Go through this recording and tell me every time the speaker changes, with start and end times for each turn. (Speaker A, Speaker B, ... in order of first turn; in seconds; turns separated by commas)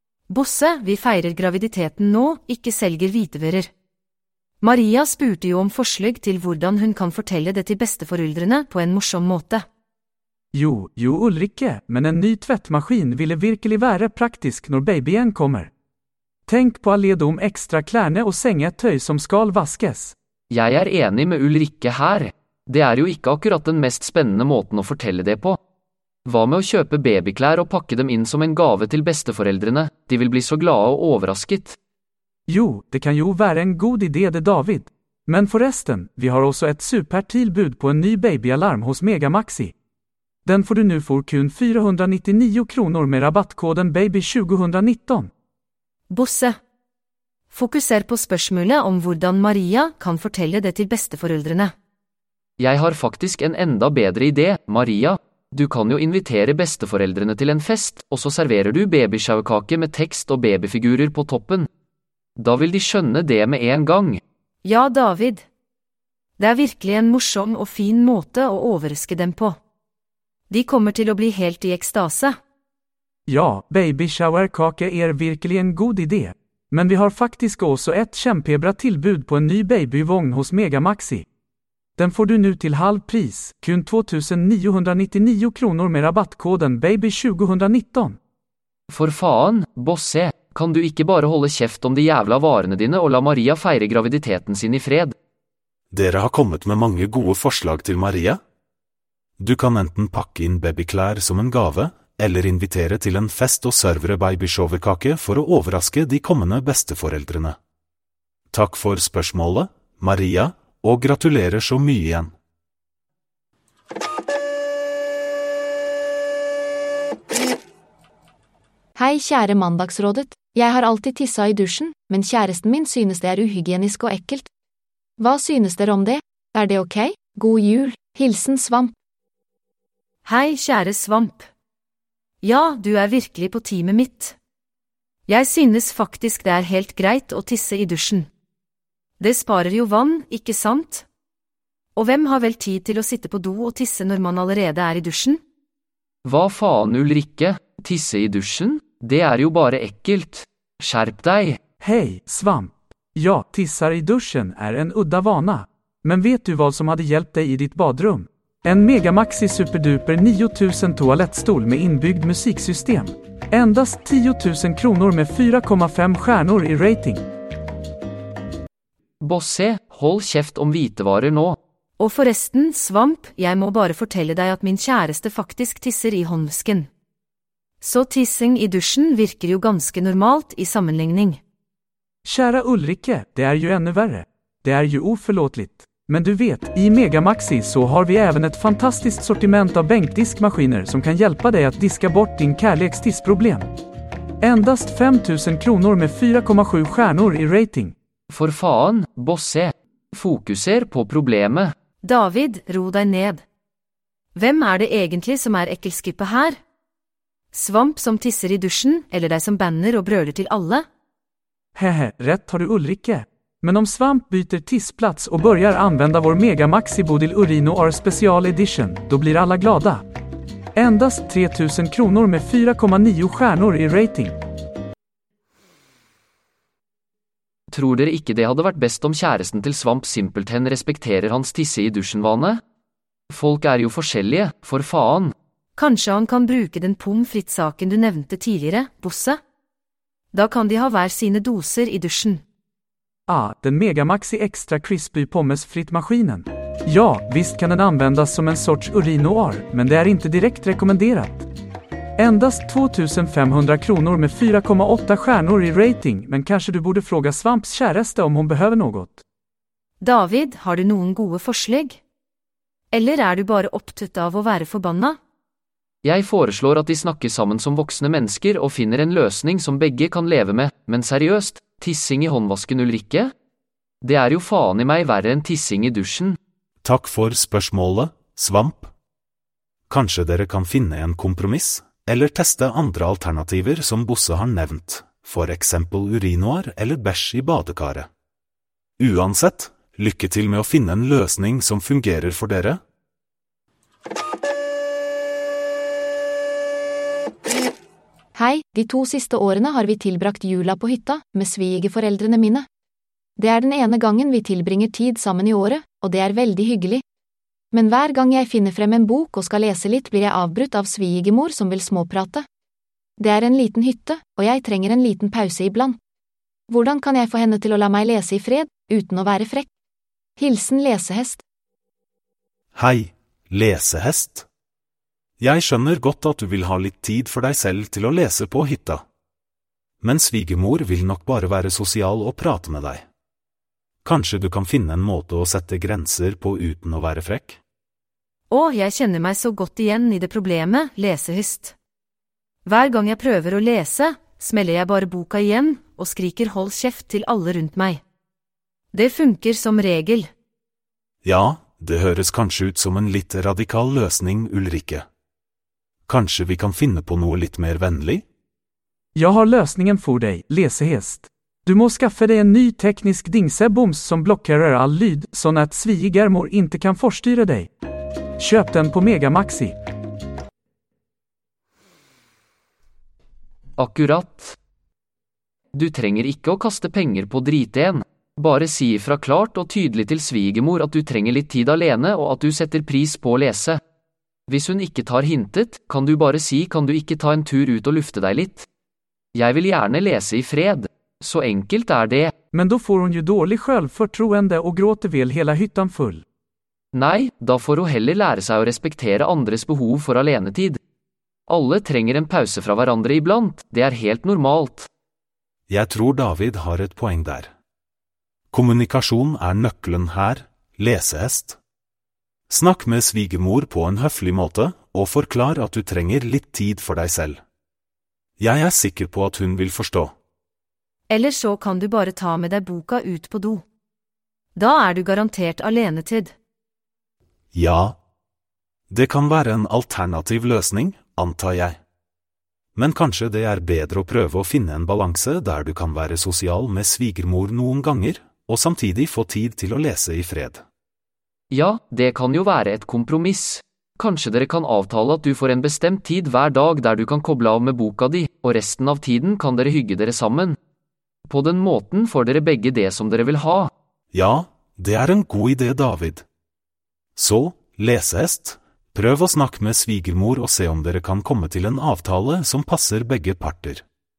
Speaker A: 0.3-3.7, Speaker A: 4.6-9.7, Speaker B: 10.5-15.7, Speaker B: 16.5-20.1, Speaker C: 20.5-25.6, Speaker C: 26.2-31.8, Speaker B: 32.5-39.7, Speaker B: 40.4-45.3, Speaker A: 46.1-46.5, Speaker A: 47.5-51.7, Speaker C: 52.6-61.7, Speaker C: 62.4-64.2, Speaker A: 64.6-65.4, Speaker A: 66.4-69.6, Speaker A: 70.5-72.4, Speaker B: 73.3-81.3, Speaker B: 82.0-88.2, Speaker C: 88.9-95.1, Speaker D: 95.9-98.4, Speaker D: 99.4-107.6, Speaker D: 108.5-112.3, Speaker E: 119.0-124.5, Speaker E: 125.2-128.9, Speaker A: 130.2-131.5, Speaker A: 132.4-134.4, Speaker A: 135.3-138.3, Speaker A: 139.2-141.1, Speaker A: 141.9-145.4, Speaker C: 146.2-151.6, Speaker B: 151.8-167.2, Speaker C: 169.2-171.6, Speaker A: 172.0-176.9, Speaker A: 177.8-181.4, Speaker B: 182.2-193.7, Speaker B: 194.4-197.9, Speaker C: 198.3-201.7, Speaker A: 202.0-203.4, Speaker A: 204.3-206.6, Speaker A: 207.5-210.8, Speaker B: 211.7-220.0, Speaker B: 220.7-224.4, Speaker C: 227.7-232.6, Speaker C: 233.3-235.3, Speaker A: 235.8-239.4, Speaker A: 240.3-242.4, Speaker B: 243.3-251.5, Speaker B: 252.2-259.2, Speaker A: 260.0-262.0, Speaker A: 262.9-265.2, Speaker C: 266.0-273.3, Speaker C: 274.0-276.4, Speaker D: 276.8-278.9, Speaker D: 279.9-288.1, Speaker D: 289.0-292.8, Speaker E: 298.4-302.6, Speaker E: 303.4-307.0, Speaker E: 307.7-312.4, Speaker E: 313.2-316.0, Speaker E: 316.7-319.7, Speaker E: 320.4-321.4, Speaker D: 322.7-324.4, Speaker D: 325.4-329.0, Speaker D: 330.0-333.1, Speaker D: 334.0-337.6, Speaker A: 338.5-341.8, Speaker A: 342.6-348.0, Speaker A: 348.9-350.3, Speaker D: 351.2-355.1, Speaker D: 356.1-358.2, Speaker B: 359.1-367.7, Speaker B: 368.4-369.7, Speaker C: 373.8-374.6, Speaker C: 375.7-383.8, Speaker C: 384.5-388.6, Speaker C: 389.3-392.3, Speaker B: 392.5-396.2, Speaker C: 396.9-400.8, Speaker C: 401.5-404.9, Speaker D: 405.7-407.5, Speaker D: 408.5-411.6, Speaker D: 412.5-417.4, Speaker D: 418.4-420.1, Speaker A: 421.1-423.6, Speaker A: 424.5-426.3, Speaker D: 427.5-428.0, Speaker D: 428.9-431.8, Speaker D: 432.7-440.6, Speaker C: 441.5-450.6, Speaker C: 451.3-453.7, Speaker D: 454.1-456.2, Speaker D: 457.1-463.8